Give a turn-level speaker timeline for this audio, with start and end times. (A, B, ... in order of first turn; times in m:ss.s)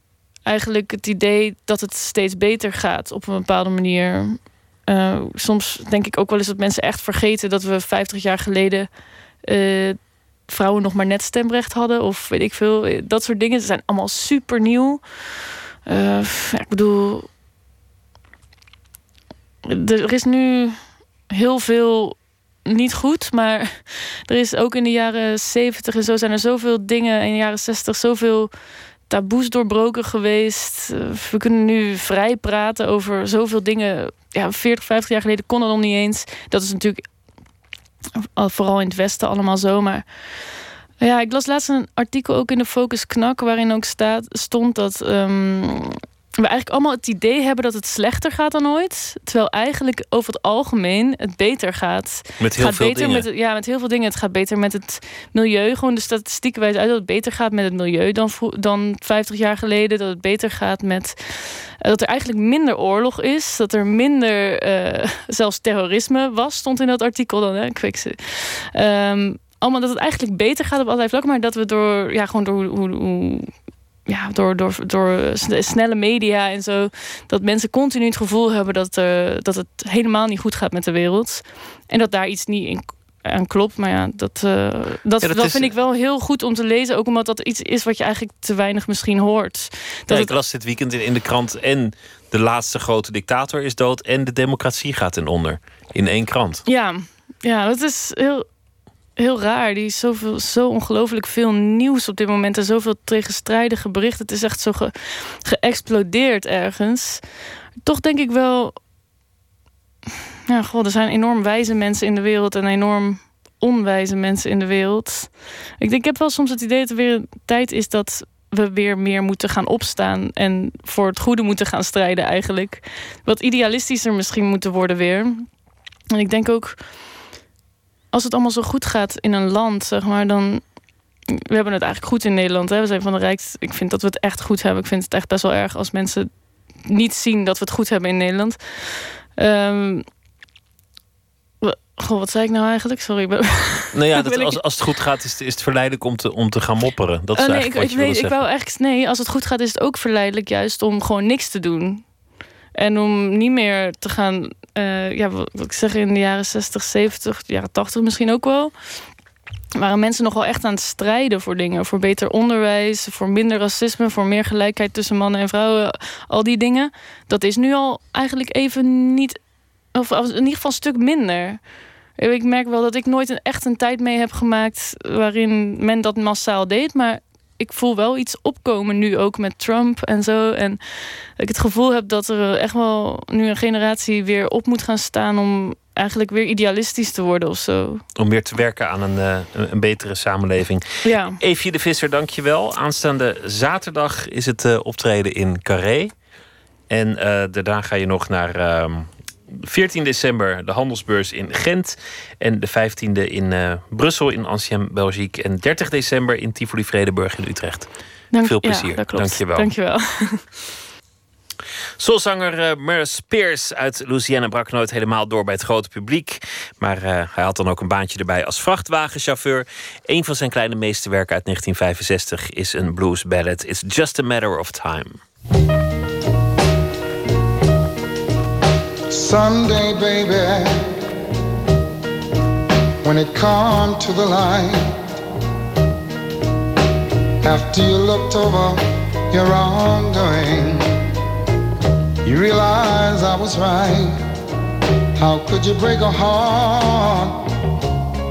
0:00.5-0:04.3 A
0:04.9-0:08.9 A
0:09.5-0:09.9 A
0:10.5-0:15.0 A
0:15.9-0:17.2 A
0:19.7-0:20.7 A
0:21.3-0:22.1 A
0:22.7-0:28.5 A
0:29.1-0:37.0 A
0:38.4-0:40.0 A
0:41.0-1:13.5 A
0:52.4-0:53.3 B
1:14.1-1:30.2 A
1:25.2-1:25.7 B
1:30.1-1:36.6 B
1:36.7-1:38.4 A
1:39.2-1:47.2 A
1:47.8-1:48.7 A
1:50.5-2:05.4 A
2:06.2-2:06.8 A
2:08.1-2:10.6 A
2:11.5-2:16.3 A
2:16.9-2:20.0 A
2:21.6-2:24.5 A
2:23.9-2:28.4 B
2:27.4-2:32.0 A
2:32.8-2:38.7 A
2:39.8-2:49.4 A
2:50.0-2:51.6 A
2:52.2-3:00.8 A
3:01.4-3:08.0 A
3:08.2-3:16.1 B
3:11.1-3:11.4 A
3:16.9-3:19.1 B
3:19.6-3:29.7 B
3:28.3-3:30.3 A
3:32.0-3:45.2 B
3:49.1-3:50.9 C
3:53.0-3:55.0 C
3:57.4-4:01.0 C
4:02.2-4:04.2 C
4:05.2-4:07.5 C